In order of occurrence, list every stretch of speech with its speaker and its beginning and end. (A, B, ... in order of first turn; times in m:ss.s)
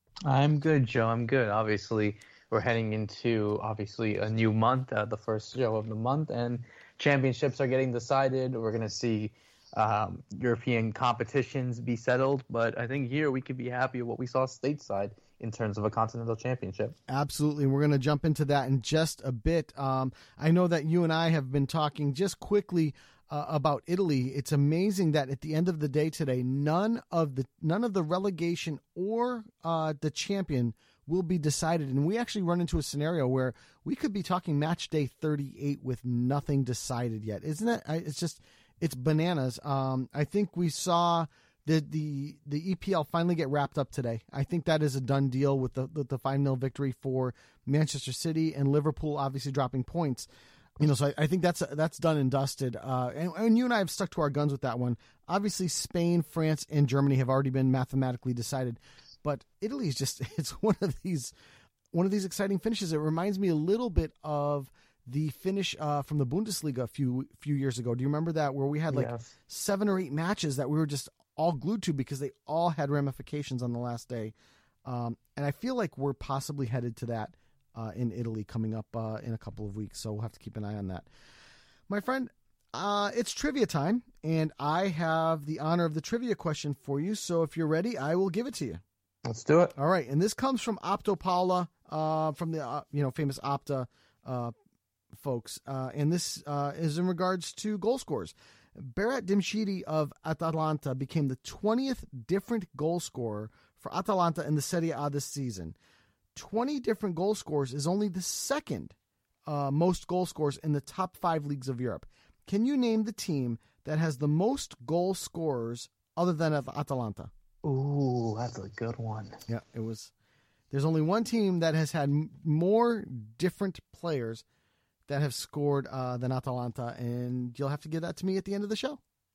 0:00.2-0:17.0 A
0:17.1-1:01.3 B
1:01.9-1:14.3 B
1:08.9-1:09.3 A
1:14.8-1:21.1 B
1:21.9-1:28.8 B
1:29.2-1:29.7 A
1:29.8-1:34.5 B
1:35.1-1:45.8 B
1:46.4-1:48.9 B
1:49.5-1:57.3 B
1:57.6-1:59.4 A
1:59.5-2:00.1 B
2:00.7-2:04.4 B
2:05.1-2:09.0 B